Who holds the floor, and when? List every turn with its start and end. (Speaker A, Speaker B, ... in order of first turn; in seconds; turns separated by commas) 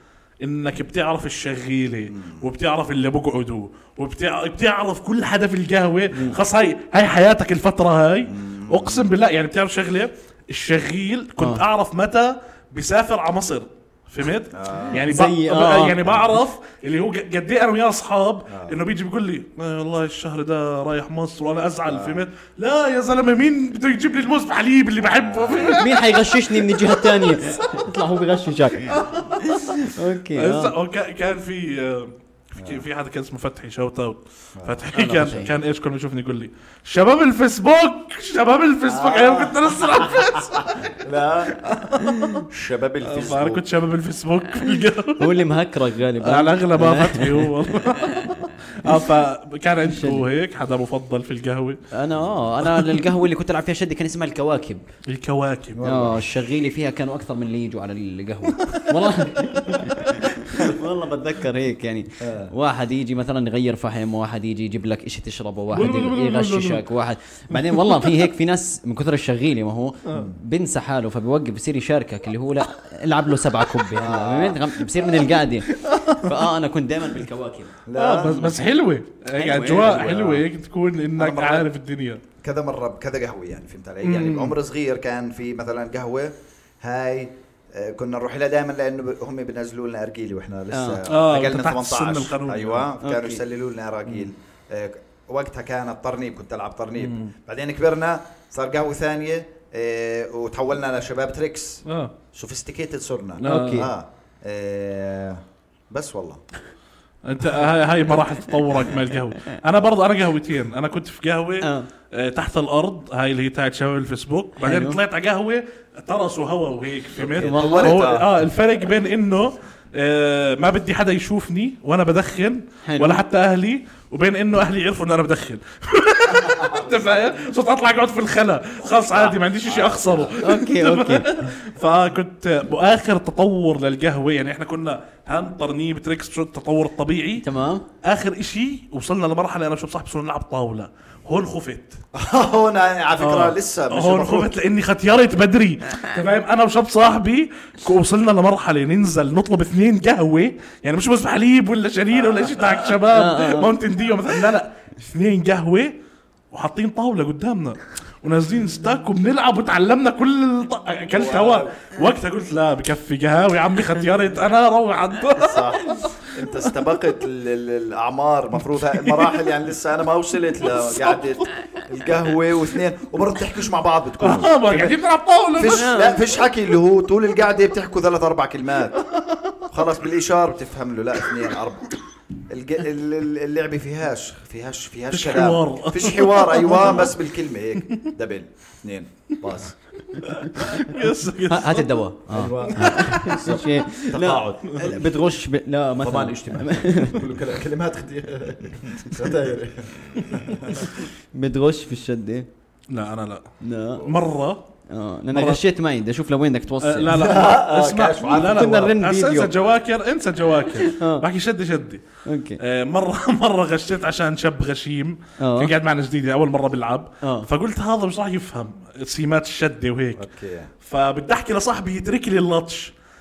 Speaker A: 0.4-27.4, Speaker B: 2.1-2.5, Speaker C: 6.1-6.4, Speaker B: 8.2-9.1, Speaker B: 14.5-15.1, Speaker C: 14.9-16.2, Speaker B: 18.5-18.8, Speaker B: 21.9-22.2, Speaker B: 25.0-25.8, Speaker C: 25.7-30.7, Speaker A: 28.9-29.8, Speaker A: 30.3-40.9, Speaker B: 32.6-32.8, Speaker B: 34.6-34.8, Speaker C: 34.9-35.5, Speaker B: 38.8-43.6, Speaker A: 41.6-42.4, Speaker C: 42.0-42.4, Speaker A: 43.0-45.5, Speaker C: 45.2-48.4, Speaker A: 46.2-51.8, Speaker C: 49.8-50.2, Speaker C: 51.9-54.8, Speaker B: 52.1-52.4, Speaker A: 52.7-53.0, Speaker A: 55.1-55.8, Speaker B: 55.7-56.3, Speaker C: 55.8-77.8, Speaker B: 62.2-62.5, Speaker A: 65.7-66.8, Speaker A: 67.5-67.9, Speaker B: 70.1-70.4, Speaker B: 73.9-74.7, Speaker A: 75.7-76.4, Speaker B: 77.8-78.6, Speaker A: 77.9-82.2, Speaker C: 79.3-80.2, Speaker B: 79.8-80.5, Speaker B: 81.2-81.7, Speaker B: 82.4-106.4, Speaker A: 84.0-84.5, Speaker C: 90.7-91.0, Speaker A: 91.1-92.9, Speaker C: 93.0-93.4, Speaker A: 97.0-97.3, Speaker A: 101.8-102.1, Speaker A: 103.4-103.9, Speaker C: 103.4-103.9, Speaker A: 107.2-137.4, Speaker C: 111.6-111.9, Speaker C: 114.6-115.0, Speaker B: 117.2-118.3, Speaker C: 117.4-118.1, Speaker C: 122.8-123.2, Speaker B: 126.3-127.4, Speaker B: 129.1-130.4, Speaker C: 130.4-131.3, Speaker C: 137.4-137.8, Speaker A: 138.0-142.0, Speaker B: 142.1-144.5, Speaker A: 143.2-155.9, Speaker B: 152.1-152.7, Speaker C: 153.1-153.7, Speaker A: 156.5-166.2, Speaker B: 161.1-161.7, Speaker B: 165.3-175.0, Speaker A: 168.6-169.5, Speaker A: 170.7-171.3, Speaker A: 174.2-176.0, Speaker B: 175.6-179.0, Speaker C: 175.7-176.2, Speaker A: 179.0-179.6, Speaker B: 179.7-181.9, Speaker B: 182.5-189.7, Speaker A: 185.1-187.2, Speaker A: 190.2-191.9, Speaker C: 190.2-190.9, Speaker C: 191.5-197.2, Speaker B: 192.3-195.0, Speaker A: 192.7-193.2, Speaker B: 196.0-201.1, Speaker C: 200.8-202.5, Speaker A: 202.9-204.6, Speaker C: 203.6-204.1, Speaker C: 204.9-207.1, Speaker A: 205.3-205.6, Speaker A: 206.8-212.0, Speaker B: 207.1-208.9, Speaker C: 208.3-209.5, Speaker C: 210.8-211.2, Speaker C: 212.2-212.6, Speaker A: 212.6-220.2, Speaker C: 215.4-215.7, Speaker C: 217.2-217.5, Speaker B: 220.2-220.7, Speaker A: 220.8-222.9